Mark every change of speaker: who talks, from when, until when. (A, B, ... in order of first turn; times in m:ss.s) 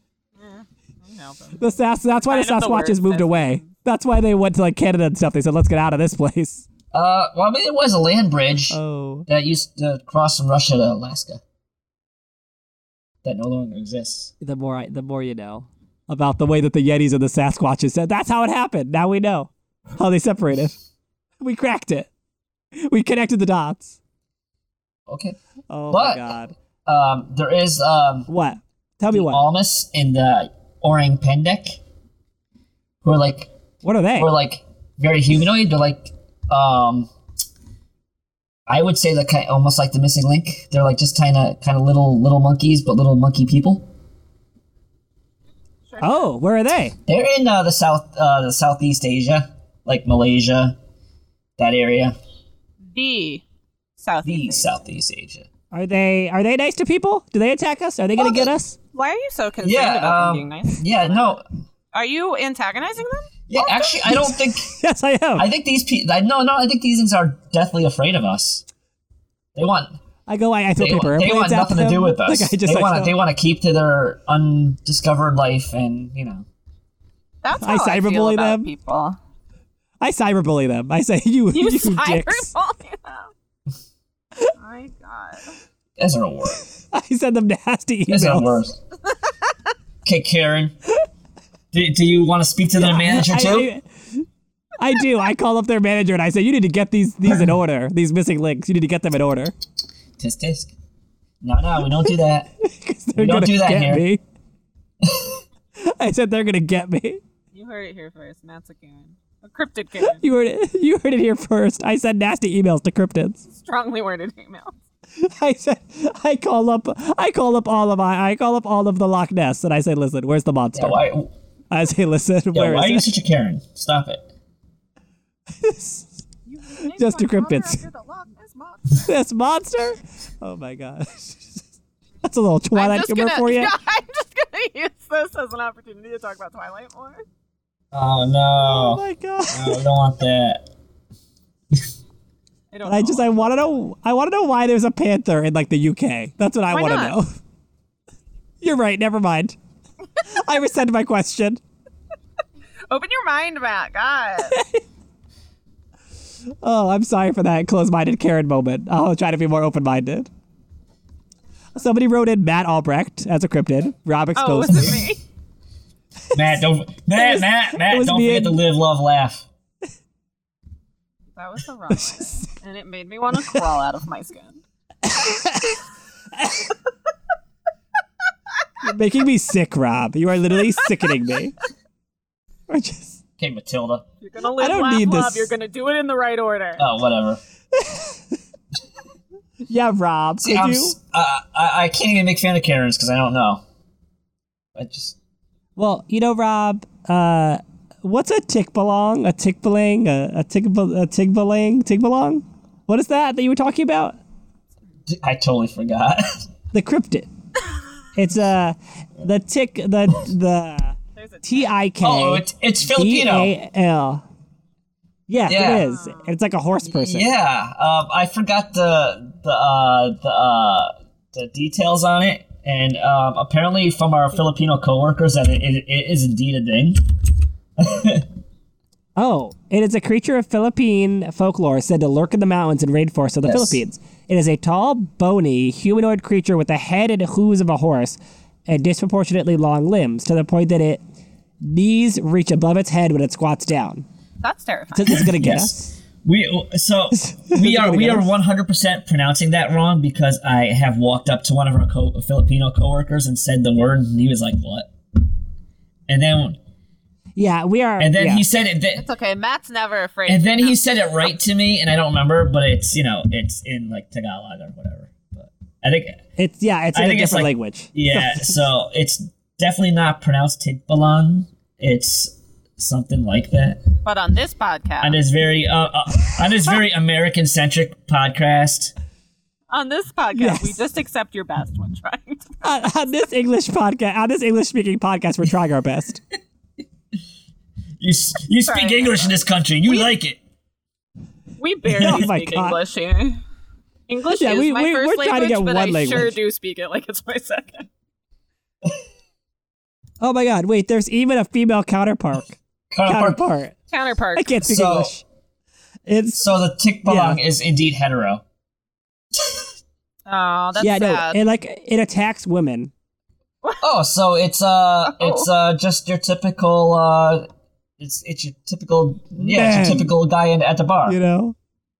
0:00.4-0:03.7 A
0:01.6-0:06.6 B
0:06.9-0:11.4 C
0:08.7-0:09.3 B
0:13.2-0:14.3 C
0:14.4-0:20.8 B
0:21.4-0:22.1 B
0:22.8-0:24.0 B
0:25.1-0:25.4 C
0:25.7-0:26.6 B
0:25.9-0:26.3 C
0:26.9-0:28.3 C
0:28.3-0:29.4 B
0:29.1-0:31.8 C
0:33.0-0:33.5 C
0:33.8-0:34.3 B
0:34.2-0:37.1 C
0:38.7-0:43.9 C
0:45.9-0:46.3 A
0:46.0-0:47.0 B
0:47.1-0:50.8 C
0:51.6-0:52.2 C
0:52.9-0:53.4 A
0:54.0-0:54.7 A
0:54.2-0:55.5 C
0:55.7-0:58.8 B
0:58.2-0:58.5 C
0:58.9-1:01.4 A
0:59.6-1:01.4 C
1:01.9-1:04.3 A
1:03.5-1:04.7 C
1:04.1-1:05.5 B
1:05.4-1:08.6 C
1:09.6-1:10.0 C
1:10.3-1:13.2 B
1:10.8-1:16.4 C
1:17.4-1:19.2 A
1:17.6-1:18.7 B
1:20.0-1:22.5 B
1:21.5-1:23.3 A
1:24.6-1:25.6 A
1:26.0-1:26.6 C
1:26.9-1:28.5 B
1:28.1-1:28.8 C
1:30.0-1:30.8 C
1:31.7-1:33.7 C
1:32.8-1:34.2 B
1:34.8-1:39.5 B
1:40.2-1:40.7 C
1:41.4-1:42.5 C
1:42.6-1:44.2 B
1:43.2-1:44.0 C
1:45.0-1:45.4 C
1:45.8-1:47.2 B
1:47.5-1:50.2 A
1:50.0-1:53.4 B
1:53.5-1:54.8 A
1:55.2-2:01.0 B
2:00.8-2:01.3 C
2:01.7-2:03.1 B
2:02.5-2:04.2 C
2:05.6-2:06.2 B
2:06.5-2:09.1 A
2:06.9-2:07.8 B
2:09.0-2:11.6 B
2:12.2-2:13.7 B
2:12.8-2:17.2 A
2:17.9-2:20.6 C
2:18.6-2:19.9 B
2:22.7-2:23.8 A
2:22.8-2:27.4 B
2:26.7-2:27.2 A
2:28.6-2:29.6 B
2:30.2-2:31.6 B
2:32.9-2:34.6 A
2:34.5-2:34.8 B
2:36.6-2:40.3 B
2:41.8-2:45.0 B
2:44.4-2:45.2 A
2:46.3-2:49.5 C
2:47.2-2:48.6 B
2:51.3-2:54.6 A
2:51.9-2:52.5 B
2:55.0-2:55.8 B
2:56.4-2:56.7 B
2:58.8-3:01.6 B
3:02.7-3:03.2 B
3:03.4-3:04.0 C
3:04.2-3:06.9 A
3:04.6-3:05.5 B
3:06.8-3:07.4 C
3:07.7-3:08.2 B
3:09.7-3:11.0 B
3:10.4-3:13.6 C
3:14.8-3:15.2 C
3:15.8-3:24.2 B
3:25.1-3:26.5 C
3:26.7-3:27.3 B
3:28.2-3:34.2 B
3:31.2-3:31.7 A
3:32.0-3:33.5 C
3:35.3-3:37.3 B
3:35.5-3:35.9 C
3:35.7-3:36.4 A
3:36.8-3:47.0 C
3:47.8-3:48.3 C
3:49.2-4:01.0 B
3:53.4-3:53.8 C
4:01.6-4:04.0 B
4:04.4-4:05.3 A
4:05.0-4:05.9 B
4:05.1-4:14.9 C
4:07.2-4:08.3 B
4:16.1-4:16.6 C
4:17.4-4:18.4 B
4:18.0-4:19.0 C
4:19.0-4:21.0 A
4:20.3-4:26.2 C
4:26.4-4:28.6 B
4:26.9-4:33.8 C
4:34.0-4:35.2 A
4:35.0-4:38.9 C
4:39.7-4:42.9 A
4:40.4-4:40.8 B
4:42.6-4:46.2 B
4:48.0-4:50.4 C
4:48.6-4:50.1 A
4:51.6-4:53.4 A
4:51.9-4:52.3 C
4:52.0-4:52.8 B
4:54.1-4:57.9 A
4:54.3-4:56.4 B
5:00.2-5:03.8 B
5:02.9-5:03.4 C
5:03.9-5:04.6 A
5:04.4-5:05.2 B
5:04.6-5:05.1 C
5:06.1-5:06.5 B
5:06.4-5:08.4 C
5:07.0-5:07.4 B
5:10.3-5:11.4 A
5:10.8-5:12.9 B
5:13.8-5:17.5 C
5:15.1-5:15.5 A
5:18.0-5:21.2 C
5:19.4-5:20.1 B
5:21.1-5:21.6 B